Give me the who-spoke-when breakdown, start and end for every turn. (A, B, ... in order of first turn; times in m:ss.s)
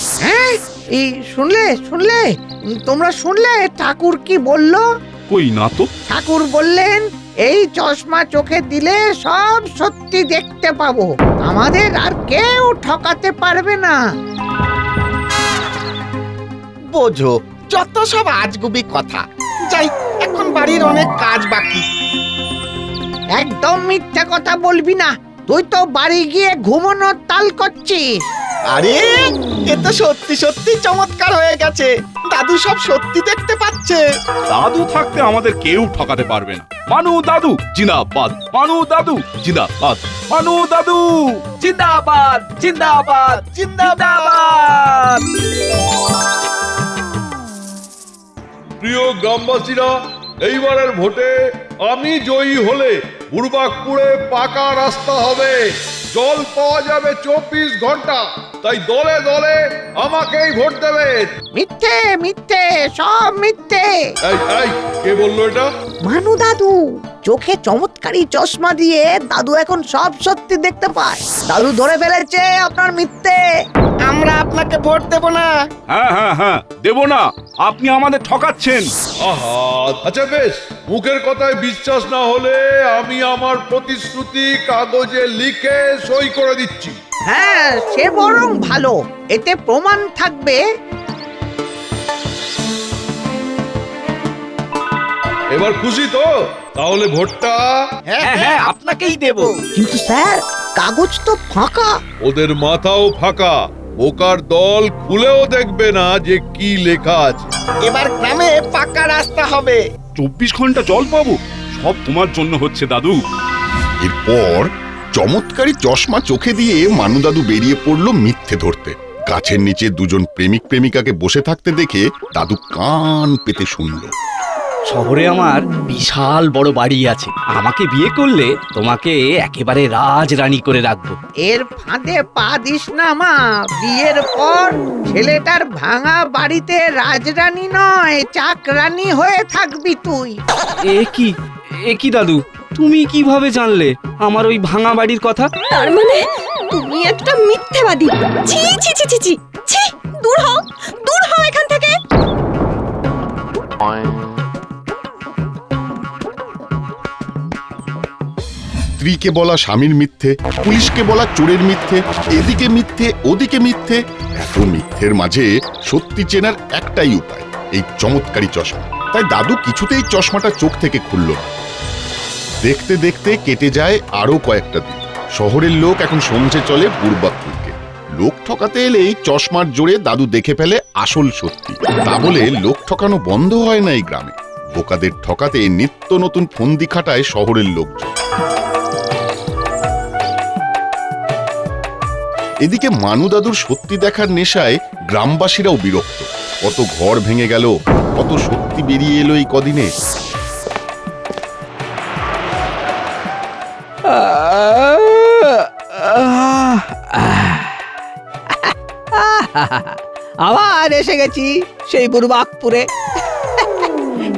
0:00.2-0:04.9 A
0:05.3-0:05.9 B
0:06.1-0:14.0 A
0:16.9-0:21.8 C
0:23.4-0:28.2 A
0:28.8-0:34.0 C
0:34.5-0:41.6 B
0:41.6-0:45.2 D
0:42.6-0:43.2 B
0:43.3-0:44.4 C
0:48.8-1:01.3 E
1:01.6-1:03.9 A
1:04.2-1:05.7 E
1:06.0-1:13.5 A
1:14.0-1:15.5 C
1:15.9-1:18.9 B
1:19.2-1:27.0 E
1:27.3-1:30.6 A
1:35.5-1:37.8 E
1:38.1-1:39.6 C
1:38.2-1:39.5 D
1:39.7-1:41.9 A
1:42.2-1:47.5 E
1:47.9-1:49.8 C
1:50.2-1:53.2 B
1:54.0-2:04.1 F
2:04.9-2:11.2 D
2:11.5-2:20.4 A
2:20.9-2:21.3 D
2:21.9-2:25.5 D
2:25.7-2:32.0 G
2:39.0-2:51.6 F
2:52.6-3:08.1 F
3:12.6-3:19.9 F
3:24.0-3:27.9 H
3:28.5-3:32.9 H
3:33.6-3:33.9 H